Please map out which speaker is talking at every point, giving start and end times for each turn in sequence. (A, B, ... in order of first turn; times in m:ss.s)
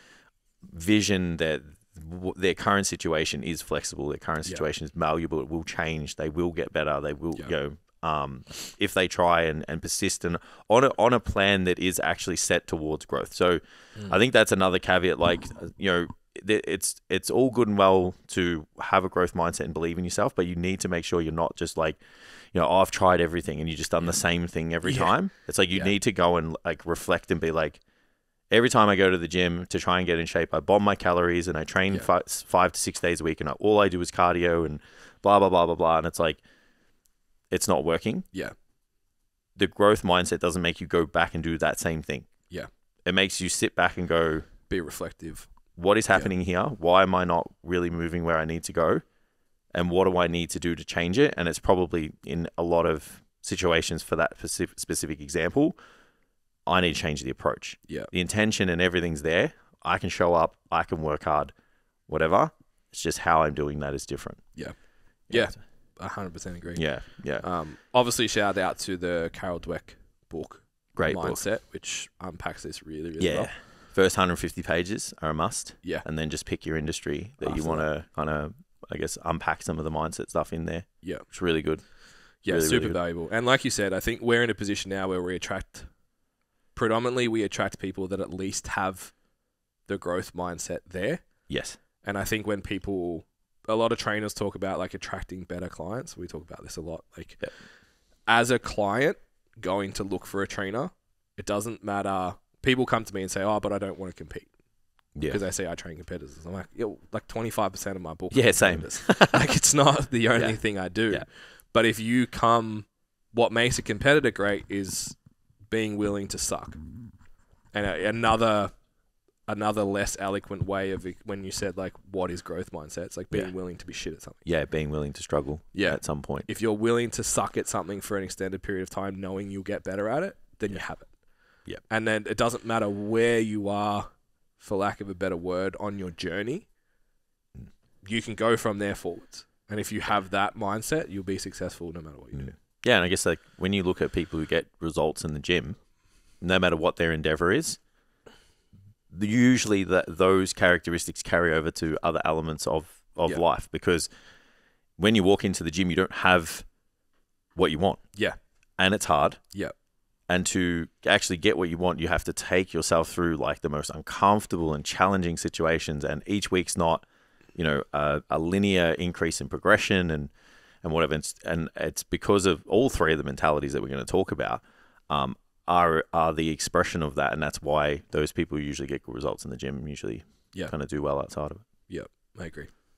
0:00.6-0:27.8 A
0:24.8-0:26.0 B
0:28.5-0:36.4 A
0:37.5-0:38.3 A
0:39.6-0:42.3 A
0:43.1-0:44.5 A
0:44.7-0:45.5 B
0:45.8-0:49.0 A
0:49.7-0:55.8 A
0:56.7-1:01.5 A
1:02.1-1:05.6 A
1:04.5-1:13.5 B
1:06.7-1:07.5 A
1:10.9-1:11.5 A
1:13.2-1:23.0 A
1:17.4-1:17.9 B
1:21.0-1:26.2 B
1:26.7-1:37.6 B
1:31.5-1:31.8 A
1:38.2-1:57.2 B
1:45.2-1:45.4 A
1:48.3-1:49.5 A
1:50.4-1:51.3 A
1:57.7-1:58.9 B
1:59.4-2:04.5 B
2:03.3-2:06.5 A
2:05.7-2:16.8 B
2:18.0-2:22.6 B
2:22.3-2:27.9 A
2:29.1-2:34.1 A
2:35.0-2:36.7 A
2:37.6-2:38.1 A
2:38.8-2:39.4 A
2:40.3-2:50.3 A
2:50.8-3:01.6 A
3:01.9-3:02.8 B